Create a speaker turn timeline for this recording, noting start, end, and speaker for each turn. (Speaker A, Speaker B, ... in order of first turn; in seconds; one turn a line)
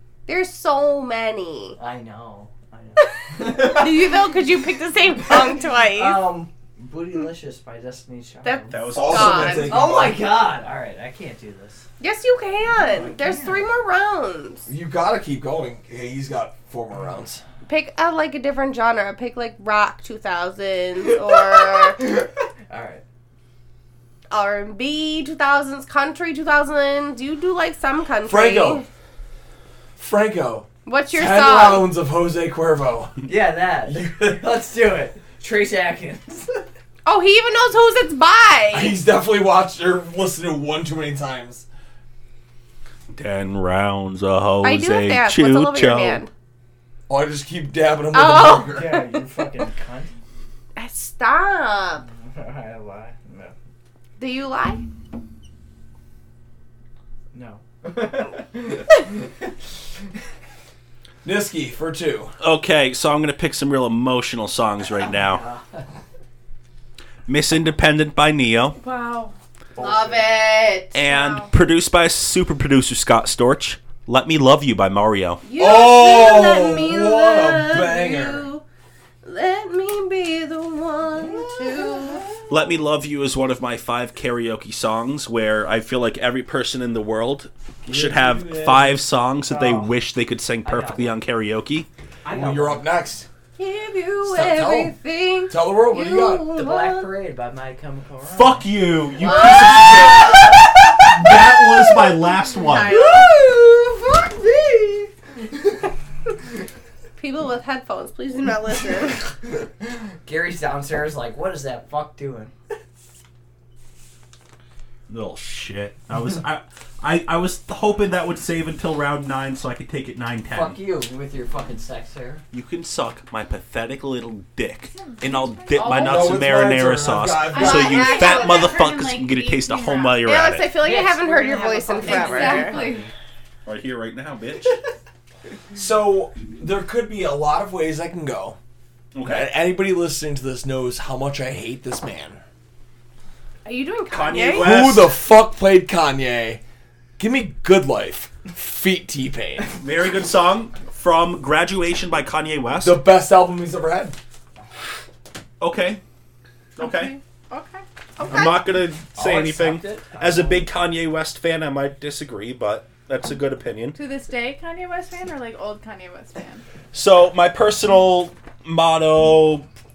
Speaker A: 0.2-1.8
Speaker B: 1.8-4.3
Speaker A: 3.0-6.2
Speaker B: 5.2-8.8
Speaker A: 8.4-9.8
Speaker C: 8.7-9.8
Speaker D: 8.9-10.2
Speaker B: 9.5-11.9
Speaker A: 12.0-14.7
Speaker B: 12.8-13.7
Speaker D: 14.7-17.4
Speaker A: 17.6-22.0
Speaker B: 21.0-23.0
Speaker A: 24.3-28.9
Speaker D: 28.2-28.8
Speaker D: 30.0-33.1
Speaker A: 30.8-31.9
Speaker B: 33.2-36.6
Speaker D: 33.9-34.4
Speaker A: 37.0-39.0
Speaker D: 38.7-41.6
Speaker C: 43.1-46.2
Speaker A: 44.6-46.3
Speaker D: 47.1-49.0
Speaker A: 48.1-48.8
Speaker B: 48.7-50.1
Speaker A: 50.8-52.1
Speaker B: 52.1-53.5
Speaker A: 54.2-54.8
Speaker B: 57.3-59.5
Speaker D: 61.2-62.3
Speaker C: 62.4-65.4
Speaker B: 65.1-65.9
Speaker C: 67.3-68.8
Speaker E: 68.8-69.3
Speaker B: 69.8-70.2
Speaker A: 69.8-70.9
Speaker C: 70.9-75.4
Speaker E: 71.0-71.5
Speaker A: 75.4-78.6
Speaker D: 75.5-78.5
Speaker A: 79.2-82.3
Speaker B: 81.7-82.4
Speaker C: 82.5-91.9
Speaker D: 87.8-89.0
Speaker B: 89.5-89.9
Speaker B: 90.6-91.2
Speaker B: 92.2-92.9
Speaker D: 92.3-93.3
Speaker A: 93.6-97.1
Speaker D: 94.2-94.9
Speaker D: 95.5-96.5
Speaker B: 96.5-98.7
Speaker C: 98.3-103.0
Speaker A: 99.2-100.6
Speaker B: 99.4-100.3
Speaker A: 102.5-103.3
Speaker B: 102.9-105.1
Speaker A: 107.2-109.2
Speaker B: 110.1-112.5
Speaker C: 115.1-120.8
Speaker B: 120.5-122.4
Speaker C: 122.5-130.6
Speaker E: 124.9-126.1
Speaker B: 125.7-126.3
Speaker D: 125.9-128.2
Speaker E: 127.5-130.2
Speaker A: 127.6-128.8
Speaker A: 130.2-132.8
Speaker B: 130.8-133.1
Speaker E: 132.0-133.1
Speaker C: 133.6-134.8
Speaker D: 135.7-138.6
Speaker C: 139.1-139.5
Speaker D: 139.2-142.4
Speaker A: 143.6-144.9
Speaker C: 144.1-145.2
Speaker D: 144.5-146.6
Speaker D: 147.2-149.7
Speaker C: 149.8-153.0
Speaker D: 152.8-154.2
Speaker C: 155.6-156.0
Speaker C: 156.8-157.1
Speaker E: 156.8-157.8
Speaker A: 158.2-158.6
Speaker C: 158.3-164.0
Speaker B: 159.1-160.7
Speaker E: 163.9-166.6
Speaker C: 166.9-169.7